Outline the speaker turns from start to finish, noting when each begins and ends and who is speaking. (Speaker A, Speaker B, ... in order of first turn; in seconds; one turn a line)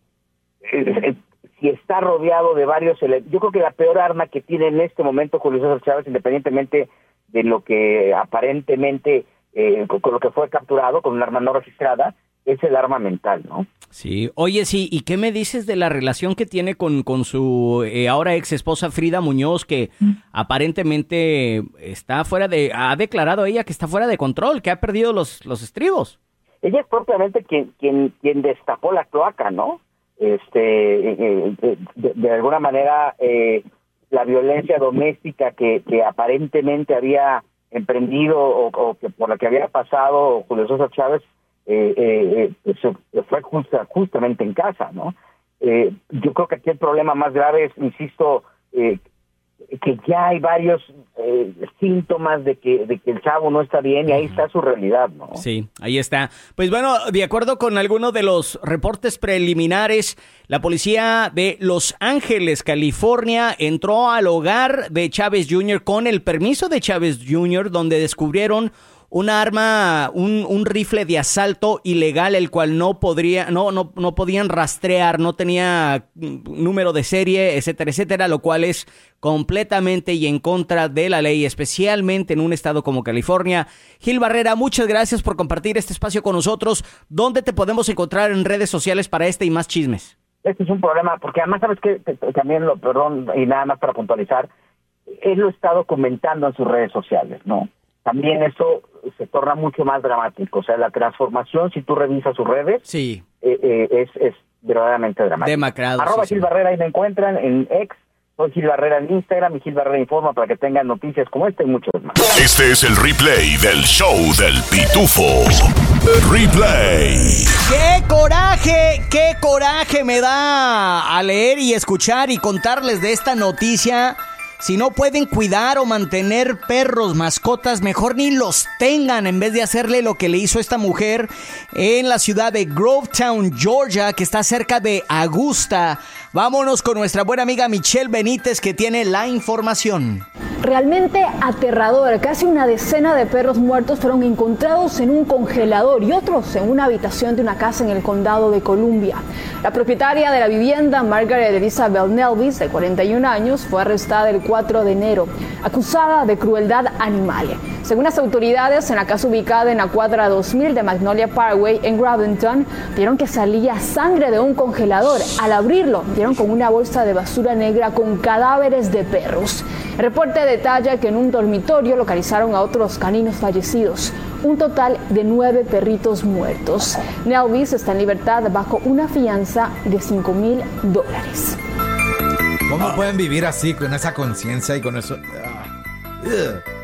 Speaker A: 0.7-13.7
Speaker B: 13.9-26.1
Speaker A: 26.6-49.0
Speaker A: 49.7-55.4
Speaker B: 55.4-90.1
Speaker A: 90.4-94.5
Speaker A: 95.1-102.8
Speaker B: 102.8-103.2
Speaker A: 103.4-112.2
Speaker B: 105.4-106.5
Speaker C: 112.3-117.5
Speaker B: 117.6-140.2
Speaker D: 140.6-181.6
Speaker E: 182.7-185.7
Speaker E: 186.2-186.6